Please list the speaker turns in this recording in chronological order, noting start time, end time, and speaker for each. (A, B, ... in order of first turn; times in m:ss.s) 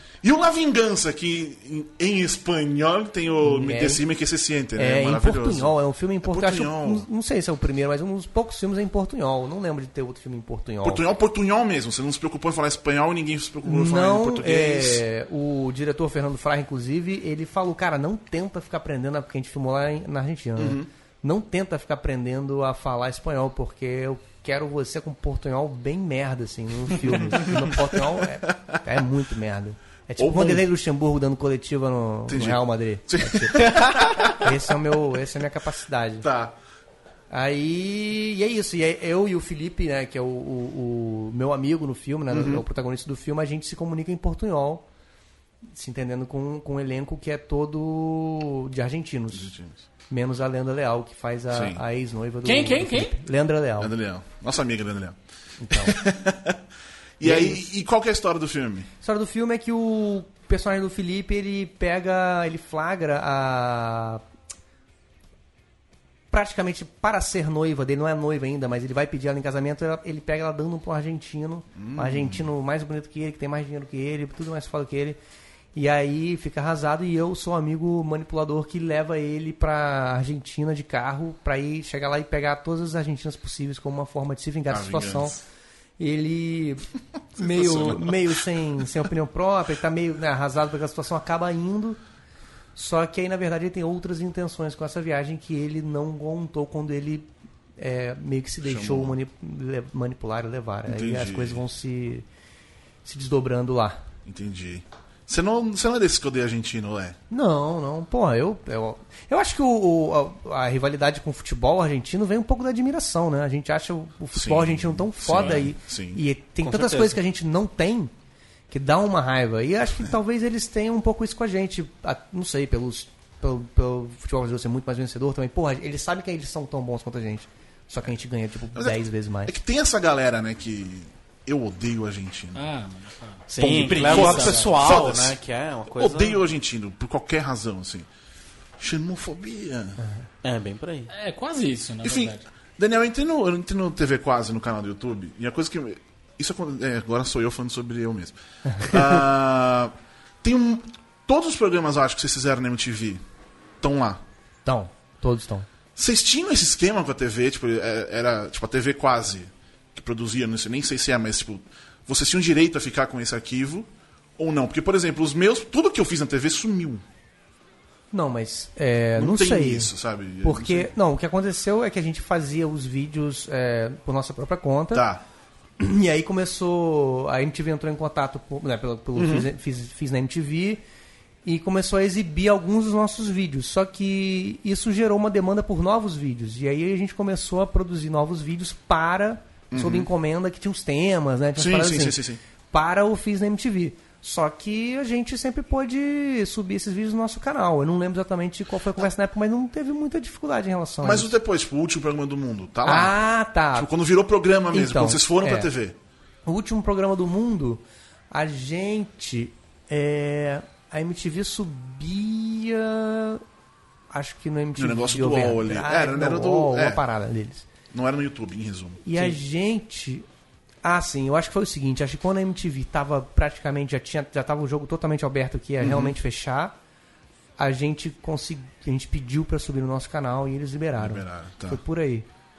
0:00.2-0:07.0 A
0:03.4-0:04.0 B
0:04.8-0:11.0 B
0:10.8-0:15.0 A
0:13.6-0:36.3 B
0:20.6-0:20.9 A
0:27.1-0:28.8 A
0:30.2-0:30.7 A
0:32.3-0:34.6 A
0:36.2-0:36.6 A
0:37.3-0:44.8 B
0:42.3-0:42.6 A
0:45.7-0:49.5 B
0:49.3-0:49.8 A
0:50.1-0:53.9 B
0:51.5-0:51.8 A
0:52.4-0:53.1 C
0:53.8-0:55.2 A
0:55.6-0:56.0 B
0:55.7-0:56.6 A
0:57.2-0:58.9 A
0:57.2-0:57.6 B
0:59.0-1:04.2 B
1:06.3-1:15.2 B
1:11.8-1:12.5 A
1:15.7-1:25.4 B
1:24.7-1:25.4 A
1:26.0-1:26.8 B
1:27.4-1:28.9 A
1:27.4-1:32.0 B
1:32.7-1:42.2 B
1:38.6-1:39.2 A
1:40.9-1:41.6 A
1:43.0-1:44.0 B
1:44.2-1:47.2 A
1:47.3-1:58.1 B
1:54.3-1:56.2 A
1:56.6-1:57.2 D
1:58.7-2:09.5 B
2:08.7-2:12.6 A
2:12.5-2:15.1 C
2:13.5-2:16.4 D
2:13.6-2:15.4 A
2:15.9-2:18.1 A
2:18.8-2:20.0 A
2:20.4-2:21.1 D
2:21.1-2:22.4 C
2:22.0-2:33.2 A
2:33.8-2:34.2 A
2:34.6-2:35.7 B
2:36.0-2:47.0 A
2:48.1-2:49.9 B
2:49.2-2:50.9 A
2:50.4-2:55.1 B
2:54.9-2:55.2 A
2:55.8-3:00.8 B
2:59.2-2:59.5 A
3:01.4-3:12.2 B
3:09.7-3:10.1 A
3:11.6-3:12.4 A
3:12.7-3:21.3 B
3:21.0-3:23.2 A
3:22.8-3:23.9 B
3:23.7-3:26.0 A
3:24.7-3:25.7 B
3:26.4-3:33.4 B
3:34.1-3:37.7 B
3:34.8-3:37.0 A
3:37.9-3:39.4 A
3:39.0-3:40.2 B
3:40.8-3:46.8 B
3:45.8-3:46.2 A
3:47.6-3:52.2 B
3:51.0-3:51.8 A